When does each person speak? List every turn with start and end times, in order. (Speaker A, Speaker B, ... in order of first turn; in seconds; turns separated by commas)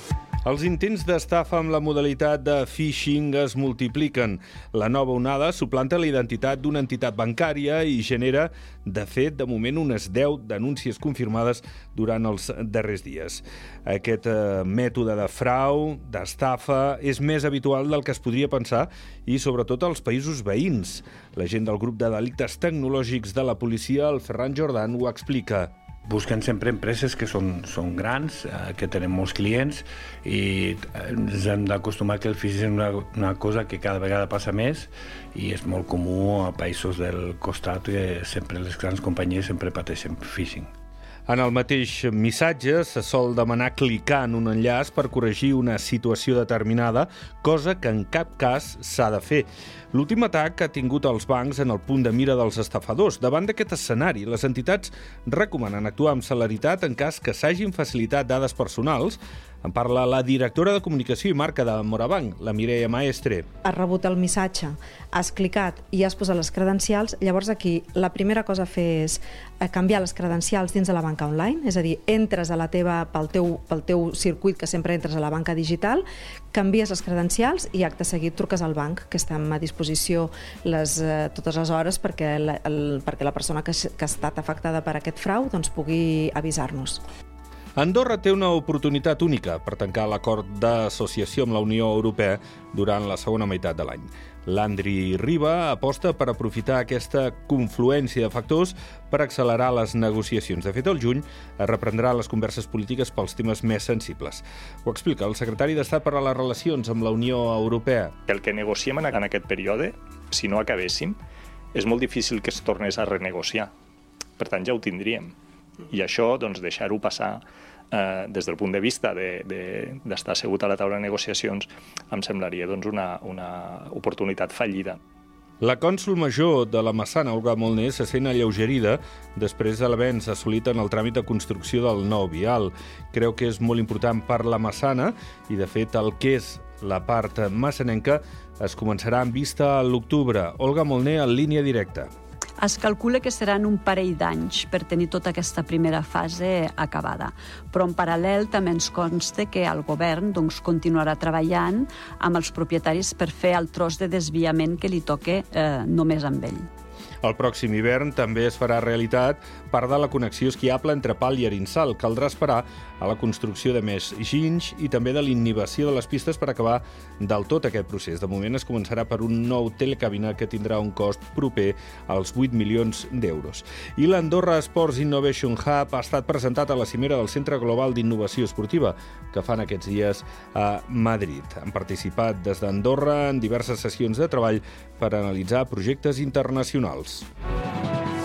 Speaker A: 0.5-25.7, Speaker B: 26.1-40.7, Speaker A: 41.3-63.5, Speaker C: 63.6-87.0, Speaker A: 87.8-108.2, Speaker D: 108.3-111.2, Speaker D: 111.7-113.7, Speaker D: 114.4-115.3, Speaker D: 115.9-125.0, Speaker A: 125.6-142.1, Speaker E: 142.6-156.7, Speaker A: 157.2-187.3